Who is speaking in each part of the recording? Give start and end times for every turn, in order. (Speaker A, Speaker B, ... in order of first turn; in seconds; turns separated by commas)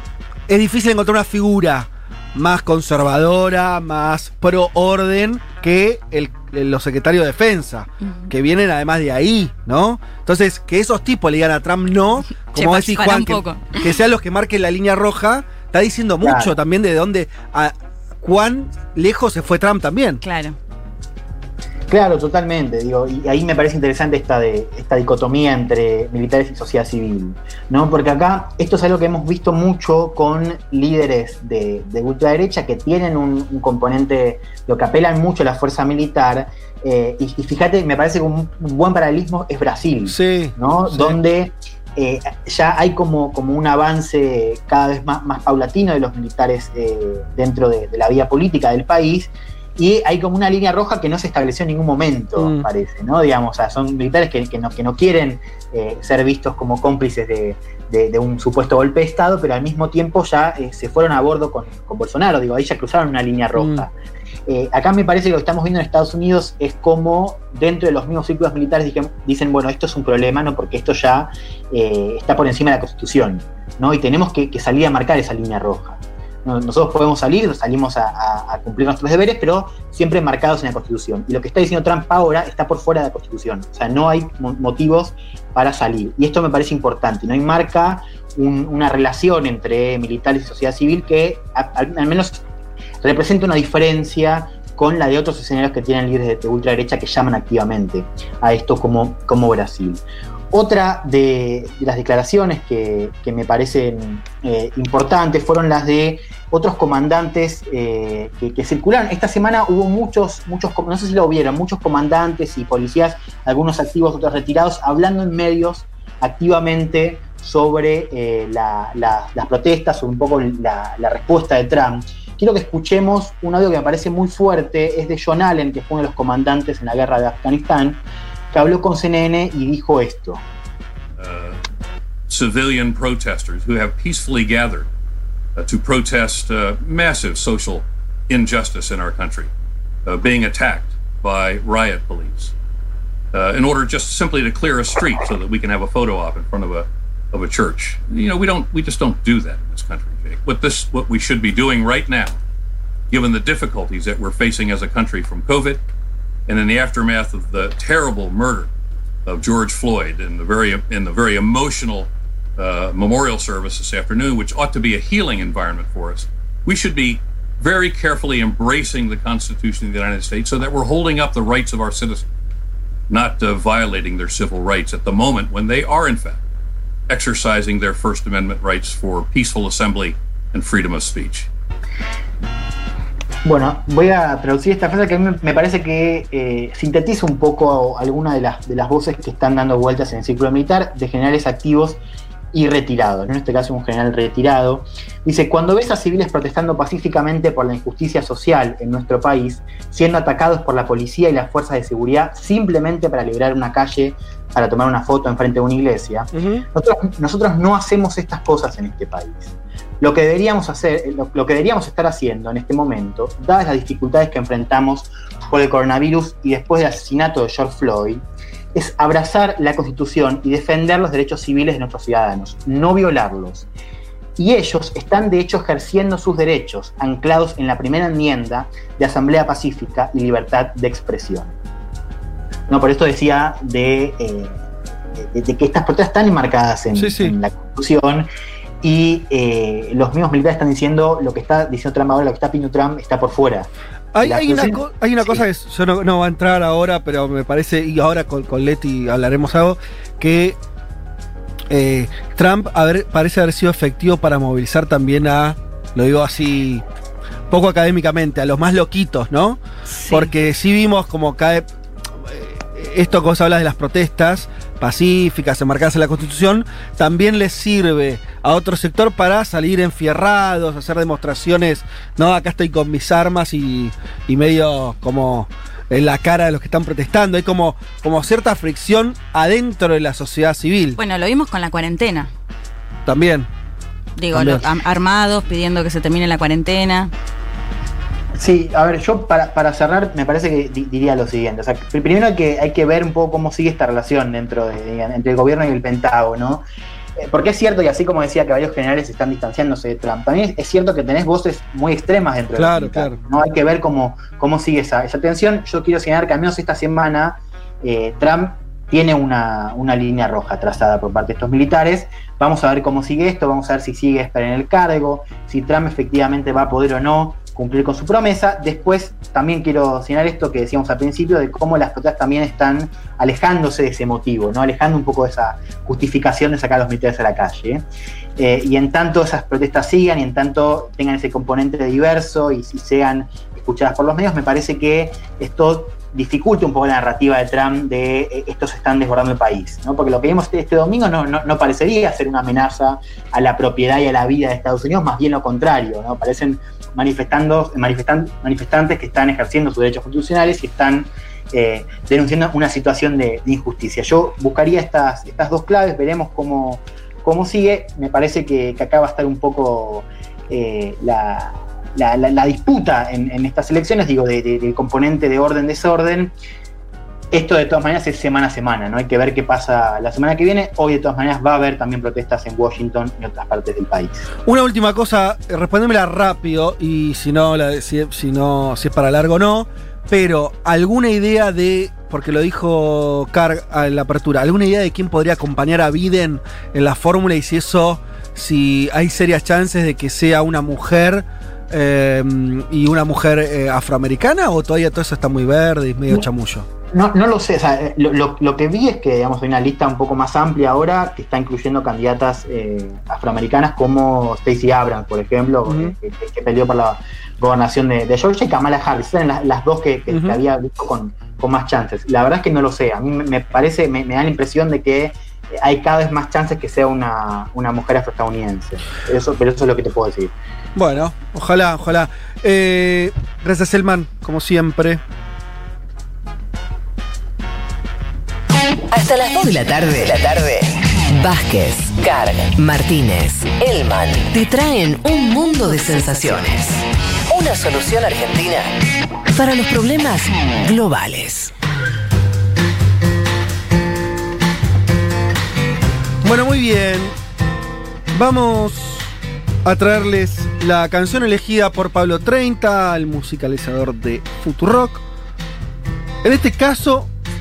Speaker A: 0.5-20.2, Speaker B: 8.0-8.3, Speaker B: 12.3-13.8, Speaker C: 16.2-16.6, Speaker B: 20.2-20.6, Speaker C: 21.9-63.9, Speaker A: 40.1-41.2, Speaker A: 52.4-52.6, Speaker A: 63.5-63.9, Speaker C: 64.5-92.4, Speaker C: 93.0-128.0, Speaker C: 128.5-130.4, Speaker D: 131.2-131.6, Speaker D: 132.3-134.9, Speaker D: 135.6-139.5, Speaker D: 140.1-142.5, Speaker D: 143.3-152.4, Speaker D: 153.1-155.8, Speaker D: 156.5-158.7, Speaker D: 159.2-172.2, Speaker D: 173.1-176.4, Speaker D: 177.1-181.5, Speaker C: 183.4-192.0, Speaker C: 192.5-218.2, Speaker A: 206.3-206.6, Speaker C: 218.7-223.7, Speaker C: 224.4-231.5, Speaker C: 232.7-234.6, Speaker C: 235.2-238.3, Speaker A: 236.9-237.3, Speaker C: 238.8-243.7, Speaker A: 244.1-250.6, Speaker C: 244.2-244.8, Speaker A: 251.7-256.8, Speaker A: 257.5-259.6, Speaker B: 259.9-260.3, Speaker A: 260.1-261.7, Speaker A: 262.3-281.0, Speaker B: 281.0-282.3, Speaker A: 283.1-283.5, Speaker B: 284.2-287.1, Speaker A: 284.3-284.6, Speaker C: 288.4-296.6, Speaker C: 297.2-327.8, Speaker A: 302.6-303.2, Speaker C: 328.4-366.3, Speaker C: 367.3-374.3, Speaker A: 374.4-396.7, Speaker C: 396.9-420.3, Speaker A: 405.6-405.9, Speaker A: 410.1-410.4, Speaker A: 420.8-425.0, Speaker E: 428.9-438.7, Speaker E: 439.3-441.5, Speaker A: 446.2-447.1, Speaker A: 448.1-449.1, Speaker A: 449.6-455.0, Speaker A: 456.2-457.1